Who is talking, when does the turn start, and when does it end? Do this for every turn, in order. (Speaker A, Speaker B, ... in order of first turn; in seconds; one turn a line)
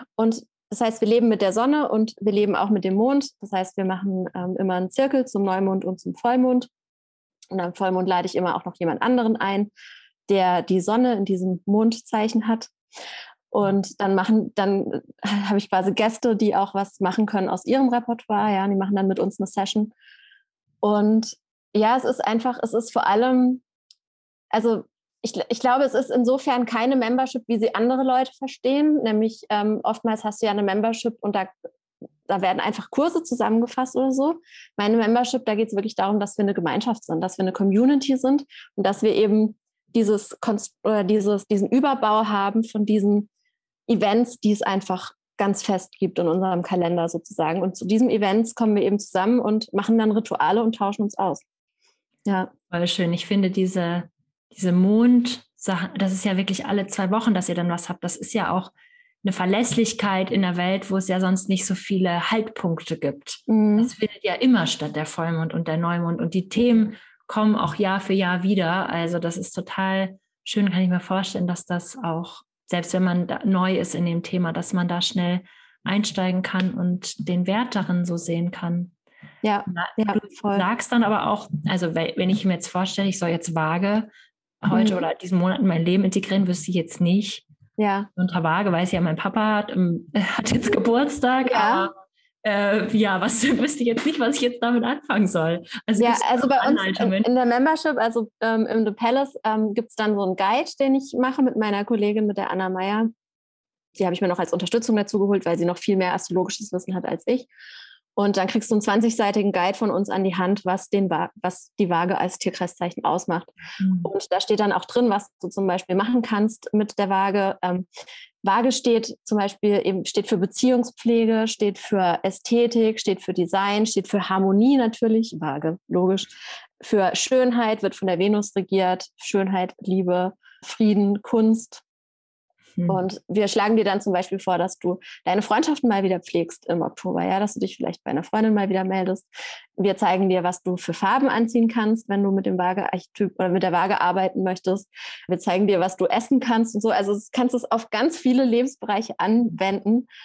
Speaker A: 0.2-6.7
Speaker A: 7.5-9.7
Speaker A: 10.3-12.7
Speaker A: 13.5-19.9
Speaker A: 20.8-23.6
Speaker A: 24.5-31.5
Speaker A: 32.3-43.3
Speaker A: 43.9-51.4
Speaker A: 52.3-52.5
Speaker B: 52.7-58.7
Speaker B: 59.2-78.9
Speaker A: 63.5-63.9
Speaker A: 79.4-80.7
Speaker B: 79.7-84.1
Speaker B: 84.6-87.5
Speaker A: 84.7-85.0
Speaker A: 87.8-88.1
Speaker B: 88.2-91.9
Speaker A: 91.5-91.9
Speaker B: 92.4-97.3
Speaker A: 96.0-103.1
Speaker A: 104.0-107.5
Speaker A: 108.2-117.9
Speaker B: 113.8-114.1
Speaker A: 118.4-131.8
Speaker A: 132.9-139.2
Speaker A: 139.8-150.1